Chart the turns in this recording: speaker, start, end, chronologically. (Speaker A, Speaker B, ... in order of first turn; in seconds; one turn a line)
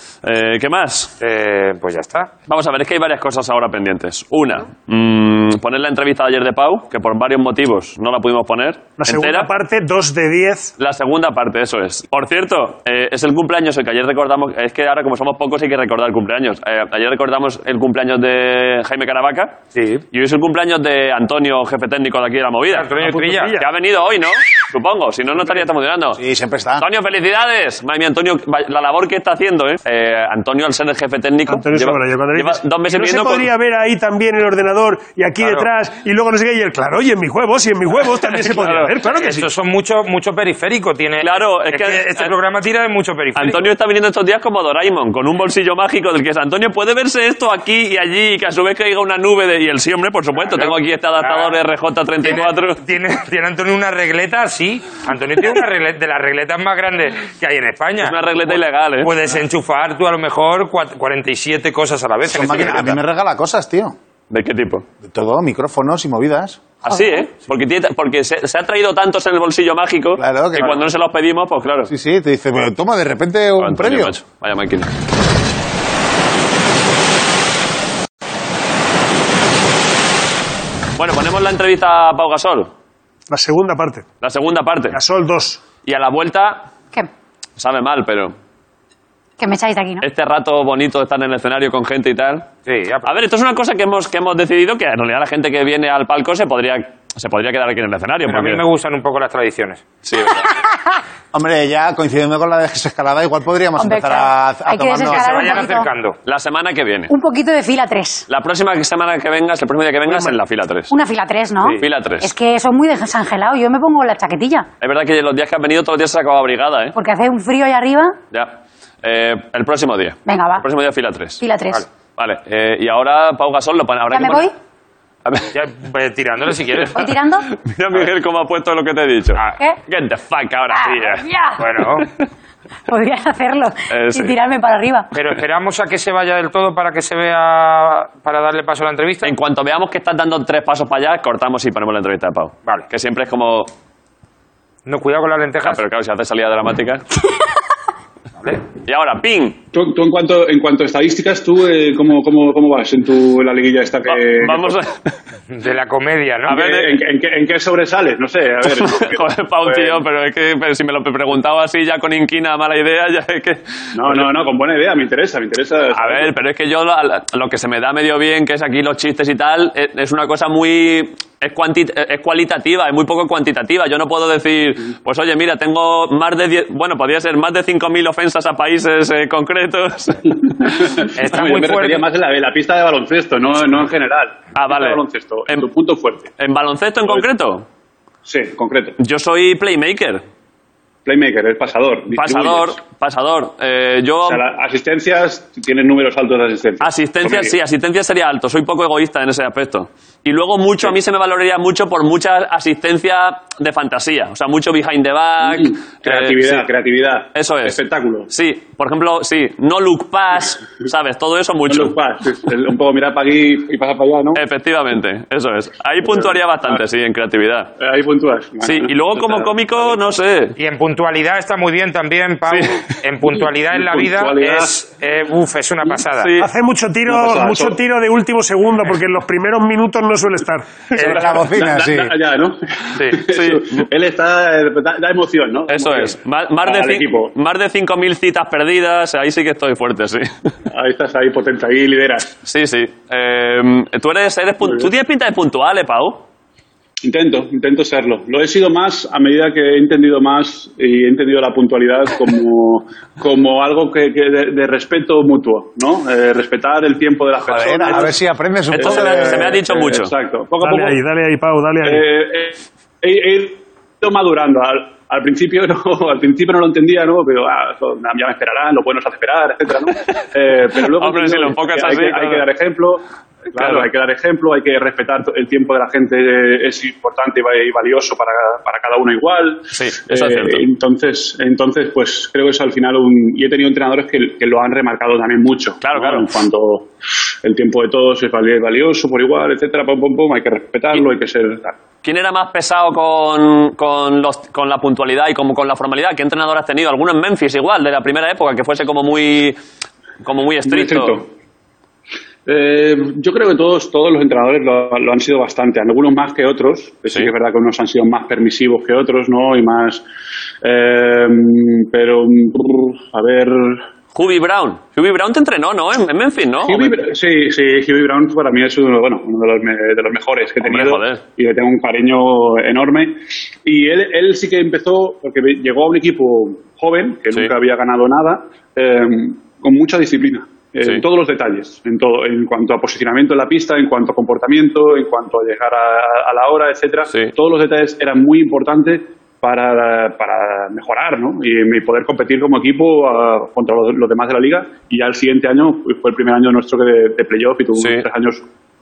Speaker A: 0.2-1.1
Speaker B: 1.2-2.3
Speaker A: 2.5-9.5
Speaker C: 9.0-10.7
Speaker A: 10.8-19.6
Speaker B: 19.7-20.0
Speaker A: 20.1-22.9
Speaker B: 22.7-23.5
Speaker C: 23.0-23.6
Speaker A: 23.6-26.2
Speaker D: 26.2-26.8
Speaker A: 26.8-33.5
Speaker C: 31.5-39.5
Speaker B: 35.4-35.7
Speaker A: 38.3-38.9
Speaker B: 39.1-43.6
Speaker A: 41.2-42.3
Speaker A: 43.4-52.8
Speaker B: 50.5-51.6
Speaker B: 52.2-63.0
Speaker A: 58.0-59.1
Speaker D: 62.3-63.9
Speaker A: 64.3-64.8
Speaker D: 65.0-66.6
Speaker A: 66.8-71.9
Speaker E: 66.9-67.2
Speaker D: 70.2-70.8
Speaker D: 71.9-74.1
Speaker A: 73.6-74.9
Speaker A: 81.0-82.7
Speaker C: 83.3-84.0
Speaker A: 84.2-85.0
Speaker C: 84.9-85.6
Speaker A: 85.8-86.7
Speaker A: 87.6-88.3
Speaker E: 89.4-90.0
Speaker A: 90.0-92.5
Speaker B: 92.7-93.1
Speaker A: 93.0-98.6
Speaker B: 98.3-99.8
Speaker A: 100.0-100.5
Speaker D: 101.3-105.7
Speaker E: 103.8-105.9
Speaker B: 105.0-106.2
Speaker A: 106.2-107.1
Speaker E: 107.1-108.3
Speaker A: 108.3-110.9
Speaker C: 110.1-110.3
Speaker E: 110.9-114.7
Speaker A: 111.8-112.3
Speaker A: 114.8-117.0
Speaker E: 116.9-118.2
Speaker A: 118.3-121.4
Speaker E: 120.2-120.7
Speaker E: 121.4-121.8
Speaker A: 122.2-124.5
Speaker E: 124.1-124.5
Speaker A: 125.2-125.5
Speaker B: 125.5-127.1
Speaker E: 126.9-127.5
Speaker A: 127.5-131.2
Speaker E: 130.7-131.7
Speaker B: 131.6-132.1
Speaker E: 132.9-135.1
Speaker A: 133.9-134.4
Speaker B: 135.1-139.3
Speaker A: 139.2-143.7
Speaker B: 144.8-145.8
Speaker A: 145.6-147.0
Speaker A: 148.8-149.6
Speaker F: 149.7-154.8
Speaker A: 154.1-155.1
Speaker B: 155.5-156.6
Speaker A: 156.5-156.9
Speaker F: 156.5-160.0
Speaker A: 158.6-164.3
Speaker F: 163.9-166.3
Speaker A: 165.9-180.2
Speaker F: 180.3-186.3
Speaker B: 181.1-182.0
Speaker A: 184.5-185.7
Speaker A: 186.4-187.7
Speaker F: 188.2-189.0
Speaker A: 189.0-190.2
Speaker F: 191.0-192.8
Speaker A: 192.1-194.4
Speaker F: 194.2-197.6
Speaker A: 196.8-206.7
Speaker F: 205.4-208.3
Speaker A: 207.3-207.8
Speaker A: 208.3-211.9
Speaker F: 211.7-214.4
Speaker A: 214.3-217.7
Speaker F: 216.0-216.8
Speaker F: 217.8-220.0
Speaker A: 218.6-220.6
Speaker B: 220.6-226.3
Speaker A: 222.5-222.8
Speaker F: 223.7-224.7
Speaker A: 226.2-226.5
Speaker C: 226.4-230.7
Speaker F: 227.1-227.8
Speaker B: 230.9-231.2
Speaker D: 231.0-232.2
Speaker F: 231.0-237.3
Speaker A: 233.2-233.8
Speaker A: 235.7-240.3
Speaker F: 240.7-242.3
Speaker A: 242.4-246.2
Speaker F: 244.6-244.9
Speaker F: 247.0-261.0
Speaker A: 257.5-258.1
Speaker D: 257.6-259.6
Speaker A: 258.7-260.1
Speaker C: 260.6-262.1
Speaker F: 261.8-286.9
Speaker A: 270.9-272.4
Speaker A: 273.6-273.9
Speaker A: 279.7-280.6
Speaker A: 285.8-286.3
Speaker F: 287.4-291.8
Speaker A: 292.0-299.6
Speaker A: 300.2-301.2
Speaker F: 300.6-301.3
Speaker F: 302.4-310.0
Speaker F: 310.6-313.8
Speaker A: 314.1-317.1
Speaker F: 316.6-348.4
Speaker A: 320.6-321.2
Speaker A: 347.7-348.0